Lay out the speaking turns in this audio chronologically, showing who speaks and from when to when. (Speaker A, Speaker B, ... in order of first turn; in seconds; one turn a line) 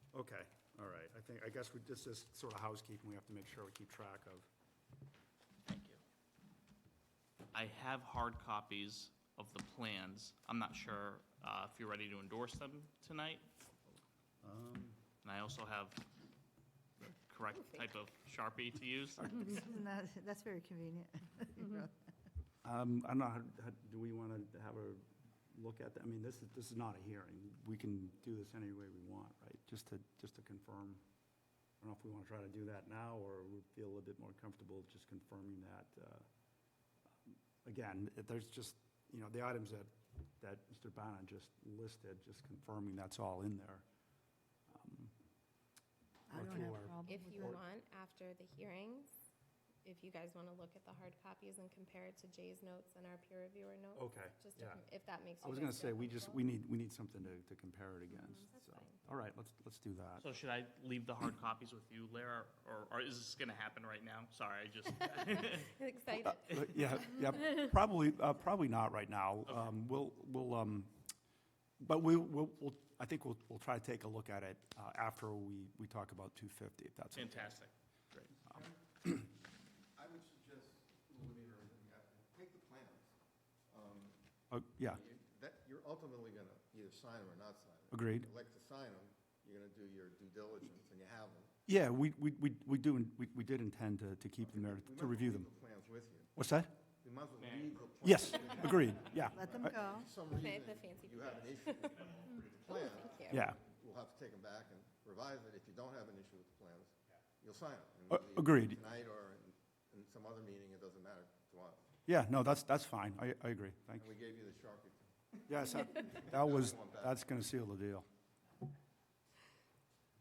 Speaker A: 0.1-4.5
Speaker B: 5.7-6.0
Speaker B: 7.5-13.4
Speaker A: 14.4-15.0
Speaker B: 15.2-16.1
Speaker B: 17.0-19.4
Speaker C: 19.4-21.9
Speaker A: 22.6-31.0
Speaker A: 31.8-36.2
Speaker A: 37.1-43.8
Speaker A: 44.7-45.1
Speaker C: 46.3-47.5
Speaker A: 46.3-47.6
Speaker D: 47.0-49.1
Speaker D: 49.8-56.4
Speaker A: 53.9-54.8
Speaker A: 55.4-60.2
Speaker D: 58.1-59.0
Speaker B: 60.2-65.7
Speaker D: 65.0-67.1
Speaker A: 66.2-70.9
Speaker B: 69.5-69.7
Speaker A: 71.8-77.6
Speaker B: 77.1-77.7
Speaker A: 78.1-78.5
Speaker E: 78.4-78.7
Speaker E: 79.9-83.1
Speaker E: 83.7-84.2
Speaker A: 84.5-85.0
Speaker E: 84.8-91.5
Speaker A: 87.9-88.3
Speaker A: 91.7-95.5
Speaker E: 94.6-96.3
Speaker A: 96.3-96.7
Speaker E: 97.0-111.8
Speaker B: 97.4-98.8
Speaker A: 98.0-99.8
Speaker C: 99.3-100.1
Speaker D: 100.3-103.5
Speaker B: 101.9-102.5
Speaker A: 103.3-103.6
Speaker A: 108.1-108.8
Speaker A: 112.1-114.1
Speaker E: 114.0-115.0
Speaker A: 115.5-118.0
Speaker E: 116.1-117.2